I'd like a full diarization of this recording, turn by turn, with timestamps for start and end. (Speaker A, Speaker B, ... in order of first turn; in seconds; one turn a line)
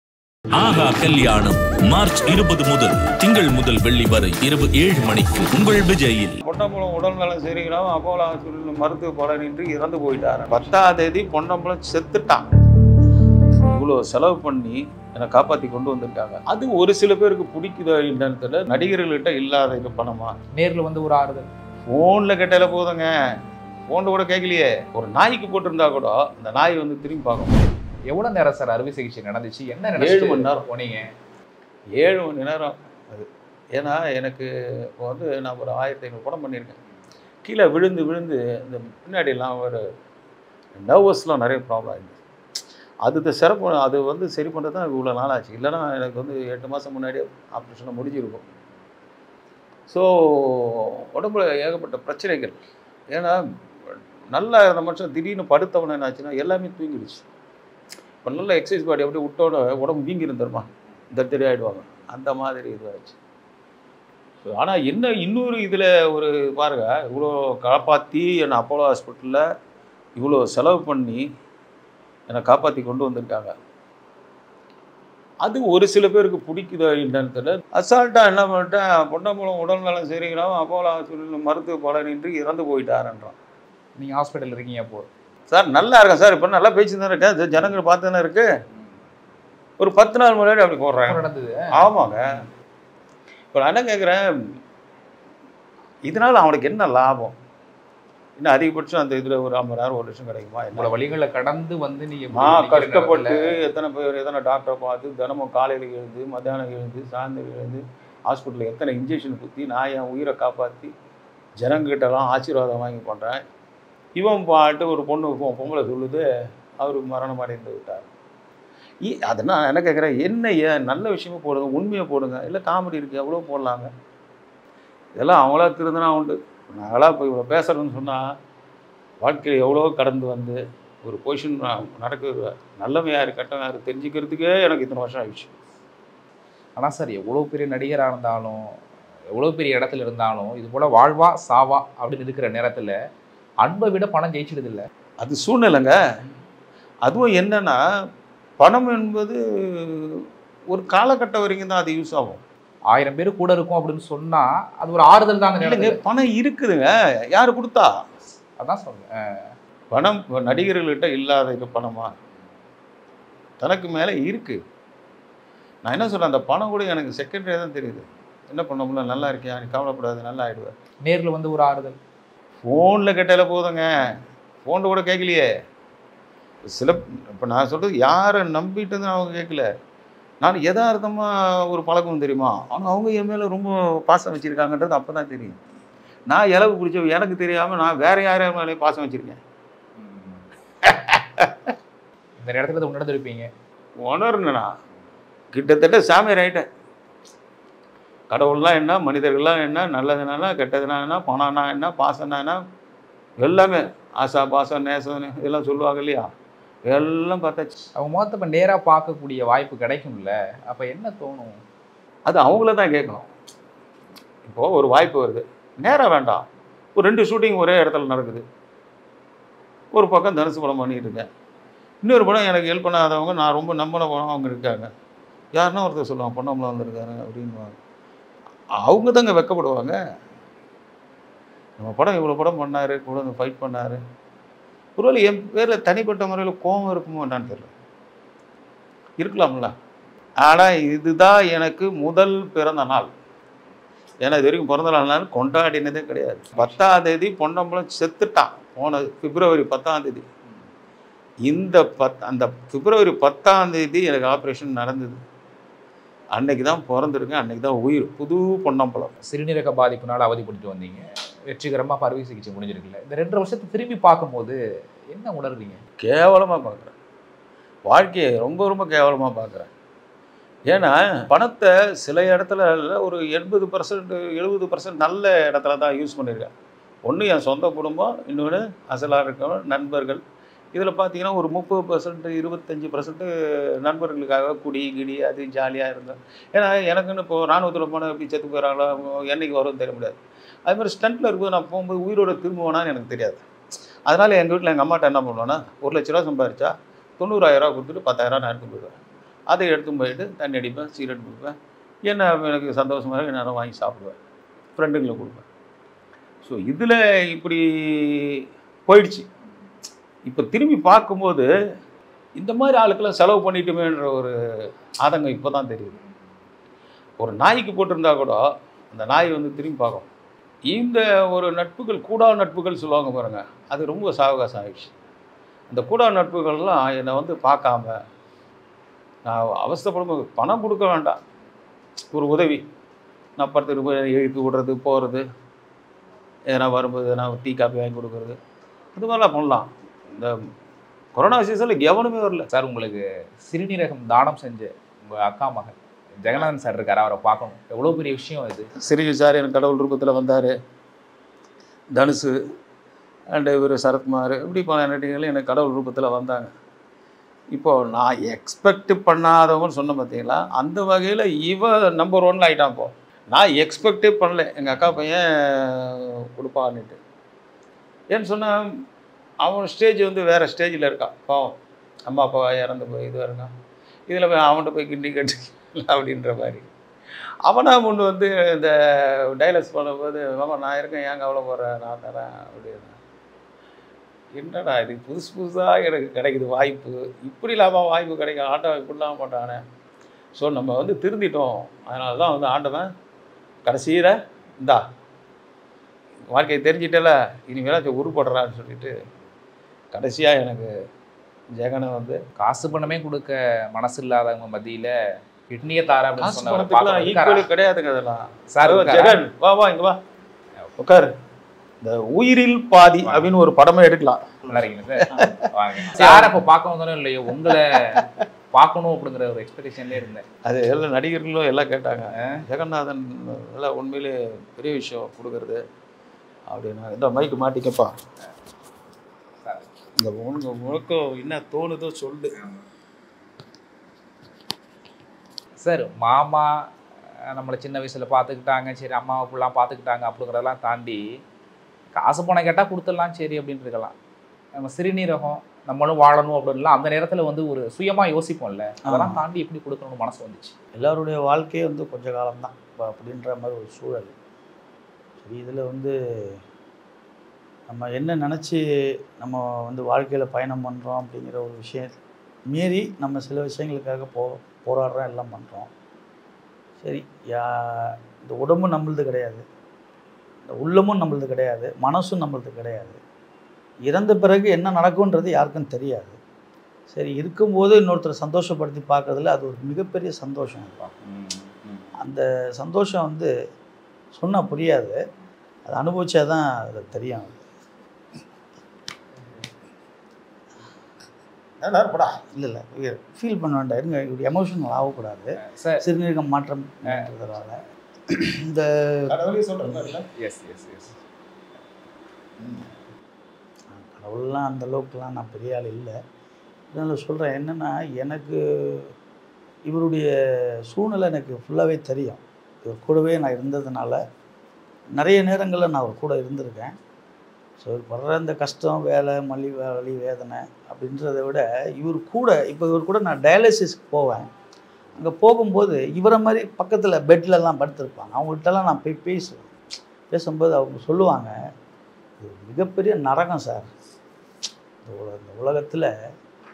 Speaker A: 0.5-6.3
Speaker B: 6.4-12.4
Speaker B: 13.7-20.4
Speaker C: 20.5-21.5
Speaker B: 21.8-23.1
Speaker B: 23.9-27.6
Speaker C: 28.1-31.1
Speaker B: 30.0-30.6
Speaker B: 31.9-36.8
Speaker B: 37.4-39.8
Speaker B: 40.8-42.2
Speaker B: 43.0-48.4
Speaker B: 49.9-52.6
Speaker B: 53.1-57.2
Speaker B: 58.2-63.2
Speaker B: 64.4-69.4
Speaker B: 70.2-71.2
Speaker B: 72.3-73.5
Speaker B: 75.4-83.3
Speaker C: 84.0-85.1
Speaker B: 85.5-88.5
Speaker B: 89.8-91.2
Speaker C: 91.0-91.7
Speaker B: 91.7-92.2
Speaker B: 93.5-94.2
Speaker B: 96.0-97.3
Speaker B: 98.4-100.9
Speaker C: 100.7-103.4
Speaker B: 102.3-110.9
Speaker B: 111.6-113.4
Speaker B: 114.2-116.2
Speaker B: 116.8-118.1
Speaker B: 119.0-123.9
Speaker B: 125.1-128.2
Speaker B: 129.2-135.5
Speaker C: 136.8-138.8
Speaker C: 139.3-142.9
Speaker C: 143.6-144.8
Speaker B: 145.2-145.9
Speaker B: 147.0-147.8
Speaker B: 148.6-152.4
Speaker C: 152.9-156.0
Speaker B: 155.6-157.9
Speaker C: 158.6-159.5
Speaker B: 159.9-162.1
Speaker B: 163.6-164.6
Speaker B: 165.8-170.7
Speaker C: 171.0-172.0
Speaker B: 172.6-173.9
Speaker B: 174.6-175.4
Speaker B: 176.7-179.7
Speaker B: 180.4-185.6
Speaker B: 186.3-189.4
Speaker B: 190.9-191.7
Speaker C: 192.4-193.5
Speaker B: 194.0-194.7
Speaker B: 195.5-196.6
Speaker B: 198.3-202.6
Speaker B: 203.4-206.3
Speaker B: 206.8-207.7
Speaker C: 207.9-211.6
Speaker B: 212.3-213.3
Speaker B: 214.4-218.4
Speaker B: 219.9-221.3
Speaker B: 222.0-224.9
Speaker B: 225.5-227.7
Speaker B: 228.8-230.0
Speaker B: 231.8-234.0
Speaker B: 235.0-237.7
Speaker B: 239.2-239.7
Speaker B: 240.4-243.1
Speaker B: 244.2-250.2
Speaker B: 251.4-255.2
Speaker B: 256.3-259.1
Speaker C: 259.2-264.6
Speaker C: 265.1-265.8
Speaker B: 266.0-266.9
Speaker B: 267.9-269.7
Speaker B: 270.7-276.5
Speaker B: 277.1-280.2
Speaker B: 280.7-293.4
Speaker B: 294.1-299.0
Speaker B: 299.5-301.5
Speaker B: 302.1-304.1
Speaker B: 304.8-305.4
Speaker B: 306.4-309.3
Speaker B: 310.2-311.5
Speaker B: 312.4-314.3
Speaker B: 315.0-316.0
Speaker B: 317.2-320.1
Speaker B: 320.7-324.9
Speaker B: 325.7-327.9
Speaker B: 329.2-331.2
Speaker B: 332.1-332.6
Speaker B: 333.4-335.2
Speaker B: 336.5-338.4
Speaker B: 338.9-340.4
Speaker B: 341.1-342.5
Speaker C: 342.5-348.7
Speaker B: 348.8-350.5
Speaker B: 351.9-352.3
Speaker B: 353.3-356.5
Speaker B: 357.5-367.0
Speaker B: 368.1-368.6
Speaker B: 369.4-371.6
Speaker B: 372.1-373.5
Speaker B: 374.1-376.7
Speaker B: 377.4-378.7
Speaker B: 379.3-383.0
Speaker B: 384.3-389.6
Speaker B: 390.3-392.9
Speaker B: 393.6-394.8
Speaker B: 396.3-398.9
Speaker B: 399.9-400.7
Speaker B: 401.6-402.2
Speaker C: 402.4-404.9
Speaker C: 405.5-407.5
Speaker B: 406.2-409.9
Speaker C: 408.5-409.2
Speaker B: 410.8-411.1
Speaker B: 411.8-416.4
Speaker C: 413.0-413.3
Speaker C: 414.5-418.0
Speaker C: 418.5-420.2
Speaker B: 420.4-425.6
Speaker C: 422.1-422.4
Speaker B: 426.5-427.9
Speaker C: 429.4-429.7
Speaker B: 430.0-432.3
Speaker C: 435.6-436.5
Speaker C: 437.3-441.0
Speaker C: 441.9-443.9
Speaker C: 444.6-450.5
Speaker D: 448.9-449.2
Speaker D: 450.7-454.1
Speaker D: 455.2-456.4
Speaker D: 457.7-458.6
Speaker D: 459.2-461.9
Speaker D: 462.5-465.7
Speaker D: 466.8-469.4
Speaker D: 470.5-473.0
Speaker D: 473.9-476.2
Speaker D: 476.9-480.8
Speaker C: 480.8-481.9
Speaker D: 482.0-483.3
Speaker D: 484.1-485.0
Speaker D: 485.6-487.4
Speaker B: 491.6-492.2
Speaker D: 492.3-497.6
Speaker C: 495.4-495.8
Speaker D: 498.1-499.1
Speaker B: 499.1-500.1
Speaker C: 500.2-500.9
Speaker D: 503.7-505.9
Speaker D: 506.7-508.9
Speaker D: 509.7-514.0
Speaker D: 514.9-516.8
Speaker D: 517.6-524.3
Speaker D: 525.0-529.5
Speaker D: 530.1-531.3
Speaker D: 532.2-533.7
Speaker D: 534.8-535.9